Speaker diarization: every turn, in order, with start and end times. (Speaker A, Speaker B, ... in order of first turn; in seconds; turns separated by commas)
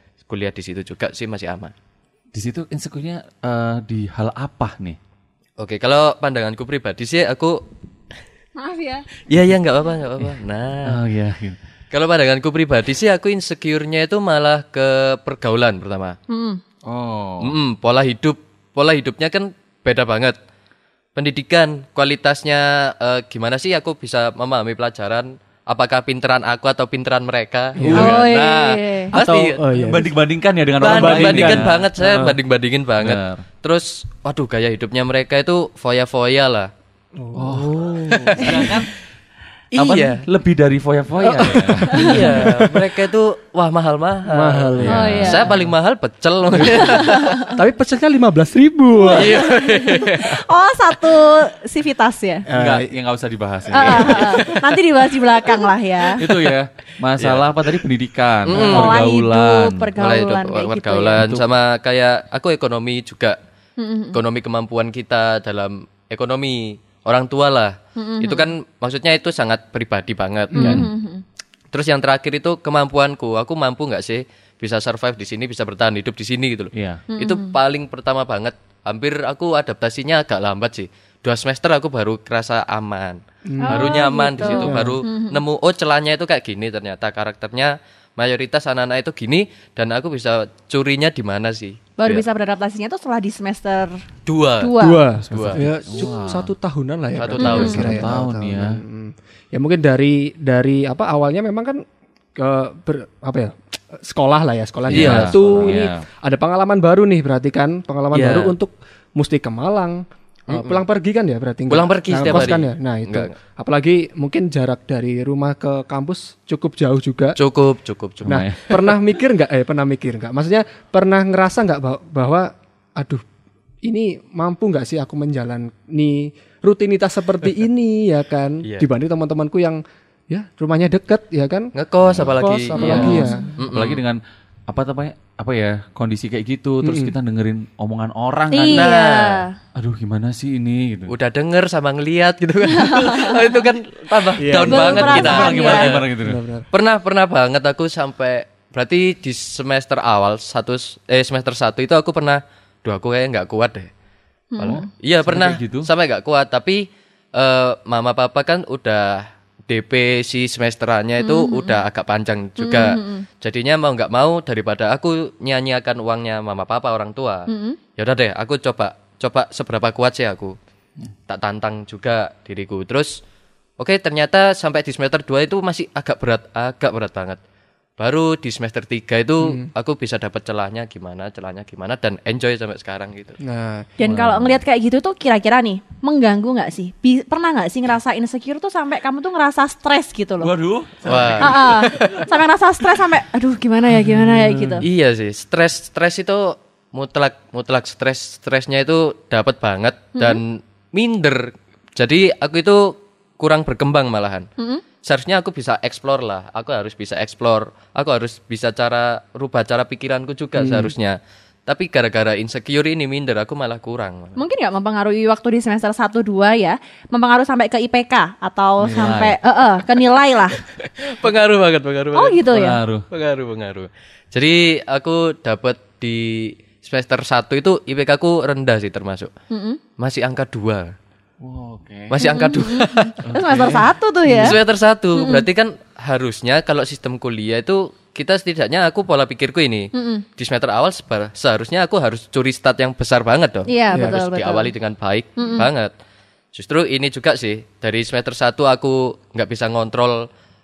Speaker A: 0.3-1.7, Speaker B: 2.3-5.0, Speaker A: 5.6-7.6, Speaker C: 8.6-9.1, Speaker A: 9.3-11.0, Speaker B: 10.8-11.6, Speaker A: 11.9-16.2, Speaker C: 16.3-16.6, Speaker B: 16.9-17.6, Speaker A: 17.4-20.4, Speaker A: 21.1-29.7, Speaker D: 27.8-28.2, Speaker B: 27.9-28.2, Speaker C: 27.9-29.1, Speaker D: 29.1-30.1, Speaker B: 29.7-31.9, Speaker D: 30.8-32.4, Speaker A: 30.8-36.7, Speaker B: 33.0-33.4, Speaker D: 37.2-38.8, Speaker B: 37.4-38.9, Speaker A: 38.1-38.7, Speaker A: 39.7-40.2, Speaker B: 39.8-42.5, Speaker D: 41.2-42.9, Speaker A: 41.9-47.4, Speaker D: 44.3-45.6, Speaker B: 44.8-45.6, Speaker C: 44.9-45.5, Speaker D: 46.5-49.5, Speaker C: 46.8-47.5, Speaker C: 49.1-52.5, Speaker A: 49.1-50.4, Speaker D: 52.5-52.9, Speaker B: 52.5-54.6, Speaker C: 53.7-56.2, Speaker A: 53.9-54.5, Speaker B: 56.2-59.9, Speaker A: 57.2-57.5, Speaker A: 58.5-59.0, Speaker C: 58.7-61.2, Speaker A: 60.0-63.4, Speaker B: 61.2-61.5, Speaker C: 63.8-64.2, Speaker A: 64.1-70.9, Speaker C: 68.0-68.5, Speaker C: 70.5-71.2, Speaker B: 70.6-70.9, Speaker A: 71.7-92.2, Speaker B: 76.7-77.0, Speaker C: 77.1-77.5, Speaker D: 83.5-85.0, Speaker C: 83.6-85.4, Speaker C: 92.0-94.0, Speaker A: 94.2-95.7, Speaker C: 94.6-95.1, Speaker D: 94.8-101.8, Speaker B: 95.2-96.5, Speaker A: 97.2-98.0, Speaker B: 97.4-98.8, Speaker C: 97.4-97.9, Speaker D: 102.4-117.4, Speaker B: 104.9-106.0, Speaker A: 104.9-105.8, Speaker A: 108.1-108.6, Speaker A: 110.5-110.8, Speaker A: 111.7-113.3, Speaker A: 117.4-119.0, Speaker B: 118.2-118.6, Speaker D: 118.2-123.2, Speaker D: 123.8-131.7, Speaker A: 128.6-128.9, Speaker A: 131.8-134.0, Speaker B: 132.1-138.9, Speaker D: 132.3-133.5, Speaker C: 132.8-133.5, Speaker D: 136.8-137.1, Speaker C: 138.5-139.5, Speaker A: 138.7-139.5, Speaker B: 139.8-141.1, Speaker A: 141.1-146.1, Speaker C: 142.8-143.4, Speaker D: 144.4-145.2, Speaker C: 144.6-145.9, Speaker B: 144.8-146.4, Speaker D: 146.2-146.7, Speaker A: 146.7-153.9, Speaker C: 154.5-154.8, Speaker A: 154.6-170.6, Speaker B: 154.6-155.9, Speaker C: 161.2-161.8, Speaker C: 162.6-163.2, Speaker C: 167.5-167.8, Speaker A: 171.3-173.2, Speaker A: 173.8-177.4, Speaker A: 178.0-183.4, Speaker D: 179.4-179.7, Speaker D: 183.4-183.9, Speaker C: 184.0-190.5, Speaker B: 184.1-184.6, Speaker B: 190.4-192.2, Speaker A: 191.1-192.2, Speaker C: 191.4-194.8, Speaker D: 193.9-194.8, Speaker A: 194.8-204.5, Speaker C: 200.2-200.4, Speaker A: 205.0-214.4, Speaker D: 210.6-210.9, Speaker C: 214.4-220.6, Speaker B: 218.8-219.4, Speaker A: 220.8-222.5, Speaker C: 222.1-222.8, Speaker B: 222.5-223.1, Speaker A: 223.1-229.3, Speaker C: 229.5-229.8, Speaker A: 230.0-230.9, Speaker B: 231.4-232.3, Speaker A: 232.1-233.2, Speaker C: 232.2-234.6, Speaker B: 233.2-233.9, Speaker D: 234.2-234.6, Speaker A: 234.4-245.9, Speaker C: 235.2-235.5, Speaker C: 239.9-240.2, Speaker C: 243.7-244.7, Speaker D: 243.9-244.2, Speaker C: 245.4-245.7, Speaker A: 246.5-250.2